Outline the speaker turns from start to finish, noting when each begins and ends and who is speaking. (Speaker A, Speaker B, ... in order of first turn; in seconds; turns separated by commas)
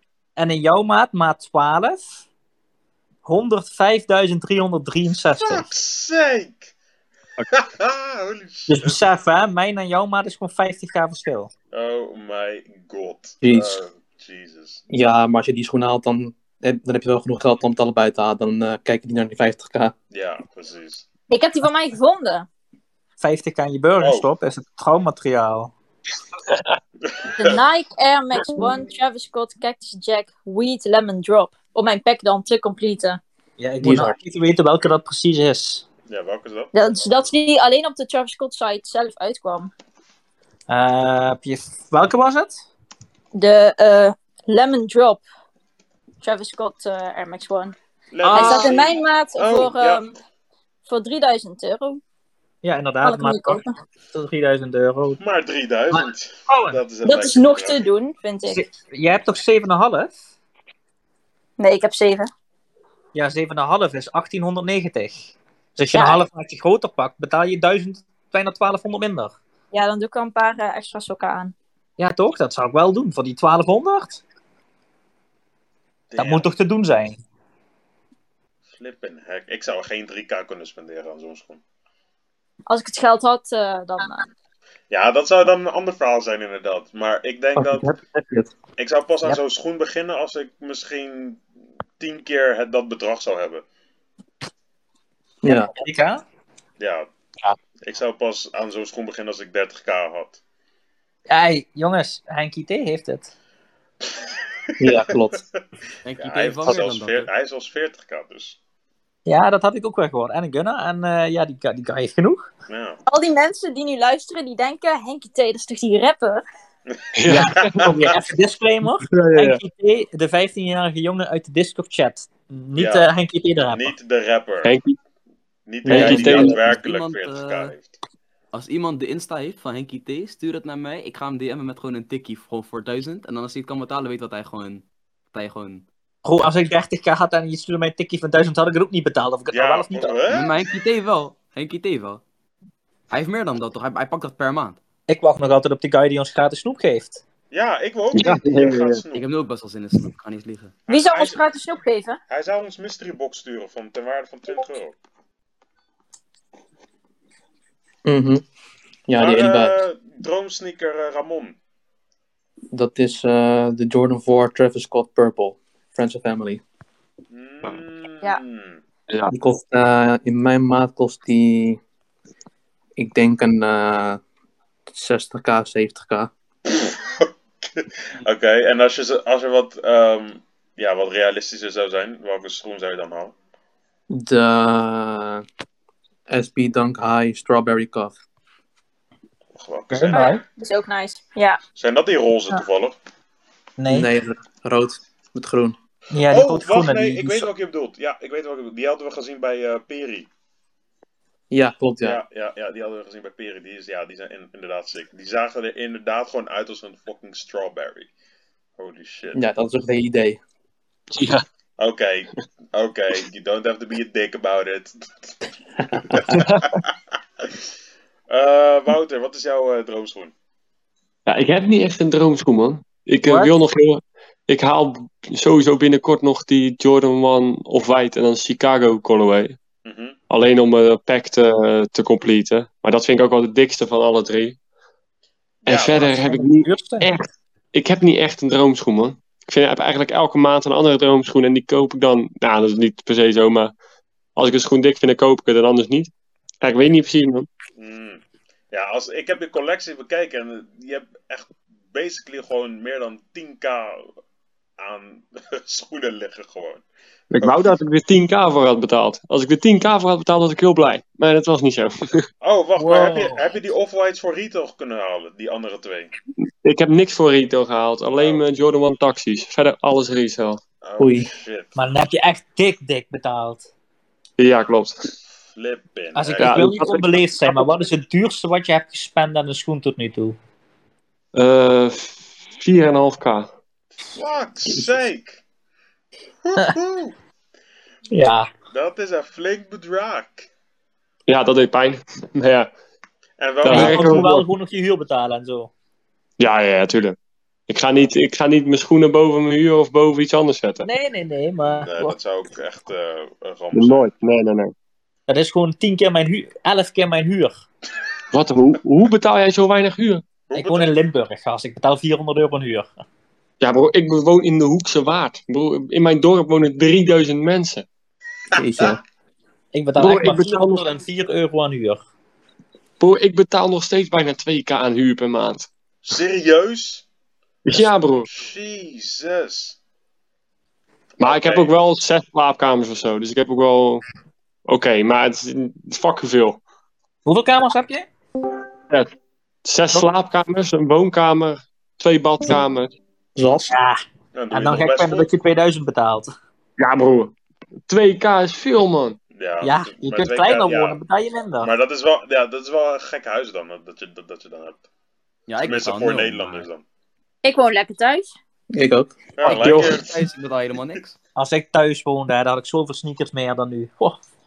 Speaker A: 0.4-2.1, Speaker A: 3.2-5.7, Speaker B: 5.4-6.7, Speaker B: 7.5-9.0, Speaker A: 8.7-11.5, Speaker B: 11.7-14.8, Speaker C: 13.4-13.8, Speaker C: 14.9-19.9, Speaker B: 20.1-21.1, Speaker D: 21.3-22.5, Speaker A: 23.2-25.7, Speaker B: 24.0-24.3, Speaker B: 27.0-27.6, Speaker D: 27.3-33.2, Speaker A: 33.6-35.8, Speaker C: 33.8-34.1, Speaker B: 36.1-36.7, Speaker D: 36.7-39.7, Speaker A: 40.7-42.6, Speaker D: 43.3-45.2, Speaker D: 46.2-47.7, Speaker B: 48.1-50.1, Speaker D: 48.3-50.1, Speaker D: 50.9-52.0, Speaker A: 52.6-53.6, Speaker D: 53.0-53.7, Speaker A: 54.1-55.2, Speaker B: 55.2-57.8, Speaker A: 55.9-56.8, Speaker D: 57.0-58.6, Speaker A: 58.5-60.2, Speaker D: 61.6-62.3, Speaker A: 63.1-69.3, Speaker D: 65.9-66.2, Speaker D: 69.7-71.5, Speaker A: 72.0-74.2, Speaker B: 76.1-76.5, Speaker A: 76.2-77.2, Speaker B: 78.7-81.6, Speaker D: 82.7-84.3, Speaker B: 84.9-87.9, Speaker C: 87.5-88.5, Speaker B: 88.8-91.4, Speaker B: 92.0-93.6, Speaker C: 95.4-95.7, Speaker A: 95.5-96.2, Speaker B: 96.8-97.1, Speaker B: 97.8-100.4, Speaker A: 101.3-103.3, Speaker C: 104.8-105.4, Speaker E: 106.0-107.3, Speaker B: 106.2-108.6, Speaker A: 109.2-112.4, Speaker B: 112.7-113.0, Speaker D: 113.0-116.4, Speaker B: 116.9-117.9, Speaker F: 117.2-118.2, Speaker A: 117.3-123.9, Speaker F: 119.0-119.6, Speaker B: 122.7-123.1, Speaker B: 123.7-124.7, Speaker F: 124.6-125.0, Speaker B: 125.7-127.9, Speaker C: 125.8-126.4, Speaker F: 125.9-126.6, Speaker E: 125.9-127.7, Speaker E: 128.5-135.8, Speaker A: 136.2-140.2, Speaker B: 139.5-140.5, Speaker E: 140.3-142.2, Speaker E: 143.1-144.8, Speaker A: 145.1-147.2, Speaker B: 147.5-149.2, Speaker F: 148.1-149.0, Speaker E: 149.1-150.7, Speaker B: 150.9-151.4, Speaker D: 150.9-152.2, Speaker B: 152.3-154.9, Speaker C: 158.0-158.4, Speaker C: 159.1-159.7, Speaker B: 159.2-161.6, Speaker C: 162.7-166.6, Speaker B: 167.3-168.8, Speaker C: 169.3-171.8, Speaker C: 173.0-174.2, Speaker C: 174.9-176.3, Speaker B: 176.7-183.3, Speaker C: 184.1-185.4, Speaker C: 186.3-188.2, Speaker B: 189.6-190.4, Speaker A: 189.9-190.4, Speaker D: 190.1-191.6, Speaker B: 191.8-192.9, Speaker A: 193.8-194.1, Speaker C: 193.9-195.8, Speaker A: 196.1-197.5, Speaker B: 196.3-200.3, Speaker C: 201.5-202.2, Speaker B: 202.0-208.1, Speaker B: 208.8-209.4, Speaker C: 209.3-210.4, Speaker F: 211.1-211.4, Speaker B: 211.8-215.3, Speaker B: 216.1-216.4, Speaker F: 216.1-216.7, Speaker B: 218.3-220.3, Speaker F: 221.2-229.6, Speaker A: 223.2-223.5, Speaker B: 229.8-230.2, Speaker F: 230.3-234.6, Speaker B: 235.6-236.0, Speaker F: 235.6-243.7, Speaker A: 235.9-237.1, Speaker F: 244.3-246.1, Speaker F: 246.6-247.5, Speaker B: 247.8-254.1, Speaker B: 254.8-256.8, Speaker F: 257.3-262.2, Speaker B: 257.4-257.7, Speaker B: 262.4-266.1, Speaker A: 262.8-263.4, Speaker F: 266.6-270.6, Speaker B: 268.1-268.4, Speaker B: 270.8-271.7, Speaker C: 271.0-271.3, Speaker A: 271.8-273.6, Speaker F: 274.4-275.1, Speaker B: 275.5-276.7, Speaker A: 276.1-280.4, Speaker F: 276.4-277.6, Speaker F: 281.3-283.5, Speaker B: 284.1-285.4, Speaker B: 286.4-287.1, Speaker A: 288.1-288.5, Speaker B: 288.7-290.5, Speaker F: 291.3-292.7, Speaker B: 293.4-294.3, Speaker F: 293.6-294.4, Speaker A: 293.7-295.7, Speaker F: 296.4-297.1, Speaker F: 297.7-300.9, Speaker A: 300.8-302.1, Speaker B: 301.6-304.1, Speaker F: 303.7-304.7, Speaker A: 305.3-307.6, Speaker F: 308.3-310.2, Speaker B: 310.5-310.9, Speaker A: 310.5-312.9, Speaker F: 313.6-317.9, Speaker C: 318.5-319.0, Speaker B: 318.6-318.9, Speaker A: 319.7-322.0, Speaker F: 320.0-320.9, Speaker F: 323.0-325.7, Speaker B: 326.0-327.0, Speaker F: 327.6-328.3, Speaker B: 328.2-329.8, Speaker B: 331.2-331.7, Speaker F: 331.2-334.0, Speaker F: 334.6-336.6, Speaker A: 337.2-338.1, Speaker F: 339.6-342.9, Speaker C: 343.4-343.8, Speaker A: 343.7-344.0, Speaker B: 344.3-345.3, Speaker A: 344.5-346.3, Speaker F: 346.8-347.3, Speaker F: 347.9-349.2, Speaker B: 349.3-351.0, Speaker A: 349.6-351.7, Speaker B: 351.6-354.8, Speaker E: 355.5-356.6, Speaker B: 355.6-356.8, Speaker D: 357.4-358.3, Speaker C: 358.7-359.1, Speaker B: 359.4-360.1, Speaker E: 359.4-361.2, Speaker F: 359.5-360.0, Speaker A: 361.4-364.2